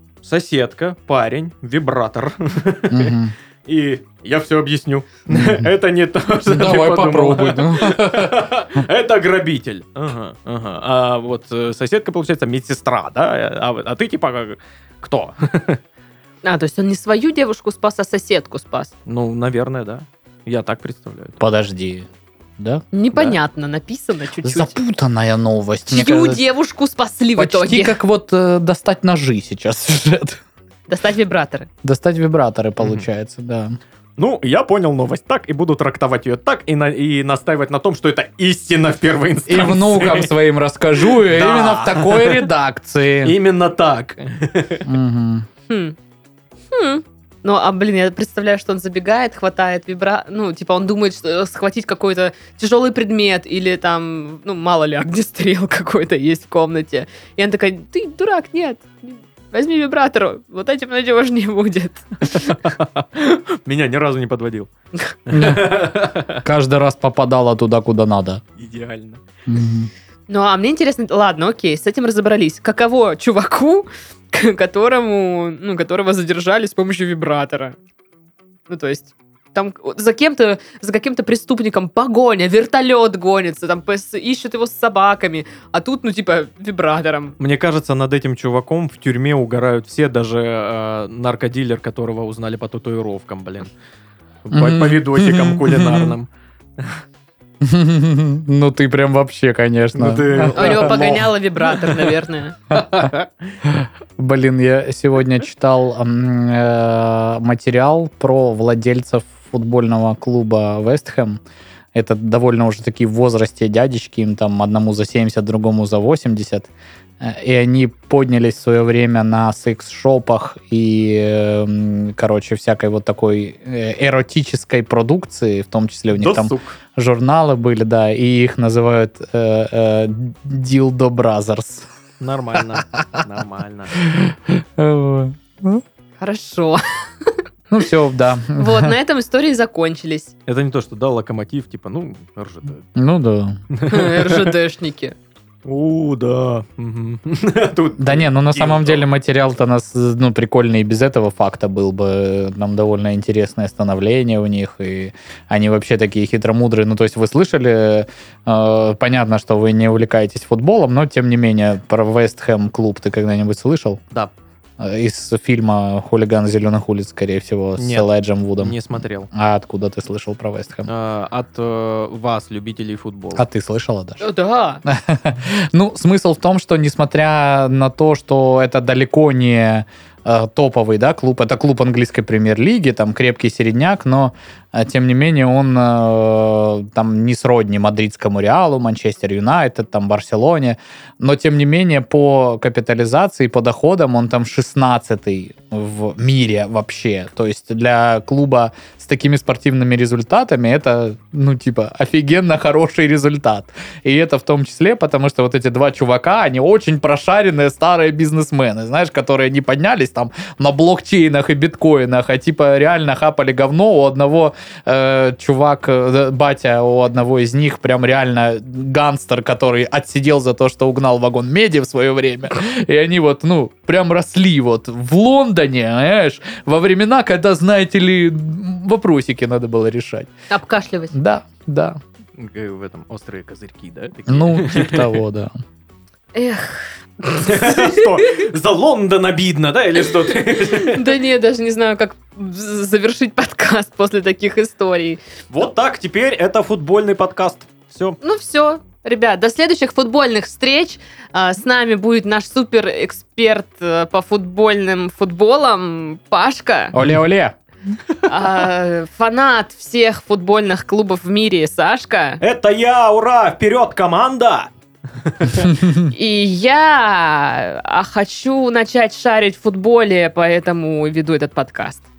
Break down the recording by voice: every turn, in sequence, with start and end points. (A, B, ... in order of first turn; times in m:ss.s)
0:00.2-0:15.8 A
0:02.9-0:03.3 B
0:05.3-0:05.7 B
0:06.5-0:08.5 B
0:16.4-0:18.9 C
0:19.0-0:21.4 A
0:21.4-0:22.8 B
0:22.9-0:24.8 C
0:24.4-0:26.4 B
0:25.9-0:28.0 C
0:27.4-0:30.4 B
0:30.9-0:31.7 C
0:31.8-0:33.8 B
0:32.8-0:33.0 A
0:34.2-0:40.3 A
0:39.5-0:43.4 B
0:41.0-0:42.5 A
0:43.2-0:44.9 A
0:44.8-0:45.5 B
0:45.7-0:46.0 C
0:46.7-1:02.6 C
1:02.6-1:04.7 A
1:05.2-1:06.4 A
1:05.3-1:08.4 B
1:08.6-1:09.2 A
1:09.5-1:09.9 B
1:10.3-1:17.8 C
1:18.7-1:27.3 C
1:27.4-1:33.7 A
1:34.4-1:36.3 A
1:34.5-1:36.1 B
1:37.6-1:41.2 B
1:39.9-1:42.1 A
1:40.5-1:42.6 C
1:42.7-1:43.1 B
1:42.7-1:43.3 A
1:43.6-1:51.4 B
1:51.9-2:11.9 B
2:06.1-2:06.7 A
2:12.2-2:14.0 A
2:14.0-2:15.8 B
2:16.2-2:17.4 C
2:17.7-2:18.9 B
2:18.5-2:20.3 C
2:20.5-2:22.8 A
2:23.0-2:23.6 B
2:23.7-2:24.5 A
2:23.9-2:25.1 C
2:25.6-2:29.0 A
2:28.0-2:44.0 B
2:44.8-2:48.8 B
2:47.8-2:49.3 A
2:49.3-2:50.9 B
2:50.9-2:53.4 A
2:53.4-2:54.2 B
2:54.2-2:54.8 C
2:54.9-3:50.3 B
3:50.5-3:51.2 C
3:51.1-3:52.0 B
3:52.4-3:55.2 A
3:54.3-3:55.5 B
3:56.3-3:58.4 C
3:57.4-4:01.2 A
4:00.5-4:05.2 C
4:05.5-4:08.2 A
4:08.2-4:17.0 C
4:16.9-4:17.5 B
4:18.2-4:22.4 C
4:22.4-4:24.7 A
4:25.3-4:25.7 A
4:26.1-4:32.0 C